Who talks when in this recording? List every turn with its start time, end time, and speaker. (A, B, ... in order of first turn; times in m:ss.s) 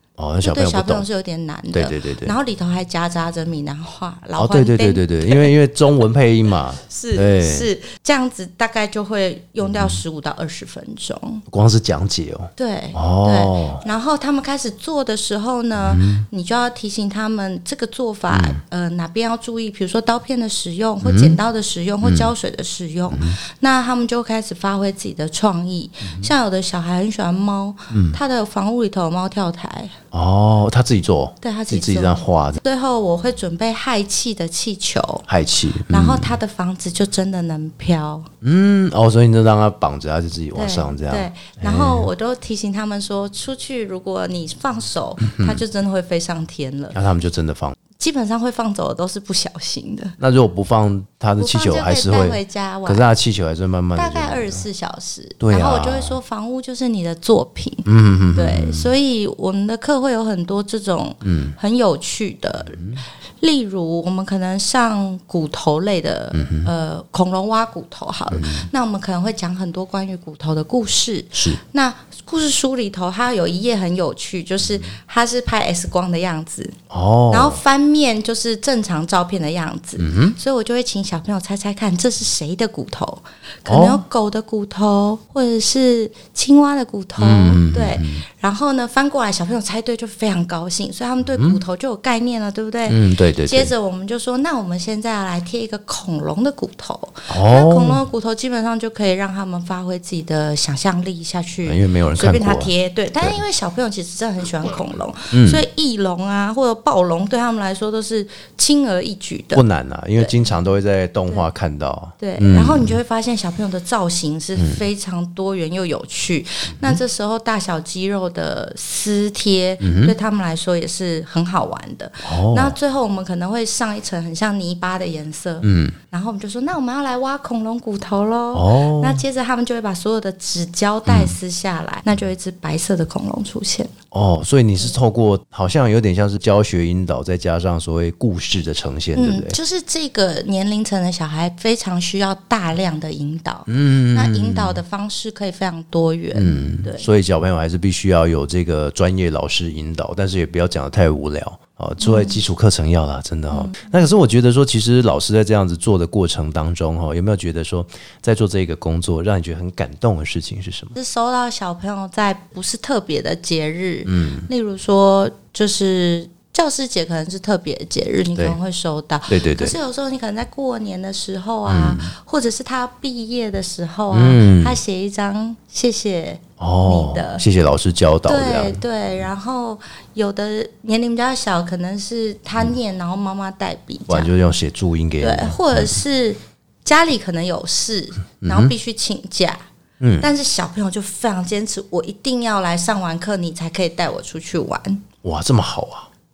0:00.2-0:01.0 A
0:00.4-0:05.5 B
0:01.7-0:02.3 A
0:04.4-0:07.7 A
0:06.9-0:11.4 B
0:09.6-0:10.0 A
0:11.5-0:13.8 A
0:12.6-0:30.0 B
0:15.8-0:16.2 A
0:18.3-0:18.6 A
0:21.0-0:21.4 A
0:22.0-0:22.3 A
0:23.1-0:23.4 A
0:26.0-0:26.3 A
0:27.9-0:28.2 A
0:30.1-0:32.6 A
0:31.4-0:35.2 B
0:35.3-0:36.4 A
0:35.9-0:38.3 B
0:38.4-0:42.1 A
0:40.5-0:47.0 B
0:45.2-0:45.6 A
0:46.9-0:47.8 A
0:48.0-0:50.2 B
0:50.2-0:54.6 A
0:51.4-0:53.0 B
0:53.9-1:02.8 B
0:55.4-0:56.2 A
0:57.8-0:58.9 A
1:01.2-1:01.6 A
1:02.6-1:03.0 A
1:03.4-1:16.8 B
1:06.3-1:06.7 A
1:08.3-1:08.7 A
1:11.3-1:11.6 A
1:16.9-1:17.6 A
1:17.3-1:49.6 B
1:20.0-1:20.4 A
1:23.7-1:24.0 A
1:27.2-1:28.2 A
1:31.3-1:31.6 A
1:32.9-1:33.7 A
1:37.3-1:38.0 A
1:41.6-1:43.4 A
1:45.3-1:45.6 A
1:49.5-1:53.0 A
1:52.2-2:13.9 B
1:54.6-1:54.8 A
1:56.7-1:57.0 A
1:59.8-2:00.1 A
2:02.2-2:02.8 A
2:05.6-2:06.0 A
2:08.5-2:09.2 A
2:11.1-2:11.3 A
2:14.1-2:19.6 A
2:19.2-2:27.1 B
2:23.7-2:24.8 A
2:26.3-2:40.9 A
2:32.0-2:32.4 B
2:33.5-2:33.8 B
2:40.9-2:57.4 B
2:44.0-2:44.5 A
2:49.3-2:49.8 A
2:51.7-2:52.1 A
2:54.1-2:54.8 A
2:56.6-2:58.8 A
2:58.2-3:04.3 B
3:04.1-3:06.0 A
3:05.2-3:09.6 B
3:08.4-3:08.7 A
3:10.0-3:10.3 A
3:10.2-3:15.0 B
3:15.2-3:16.1 A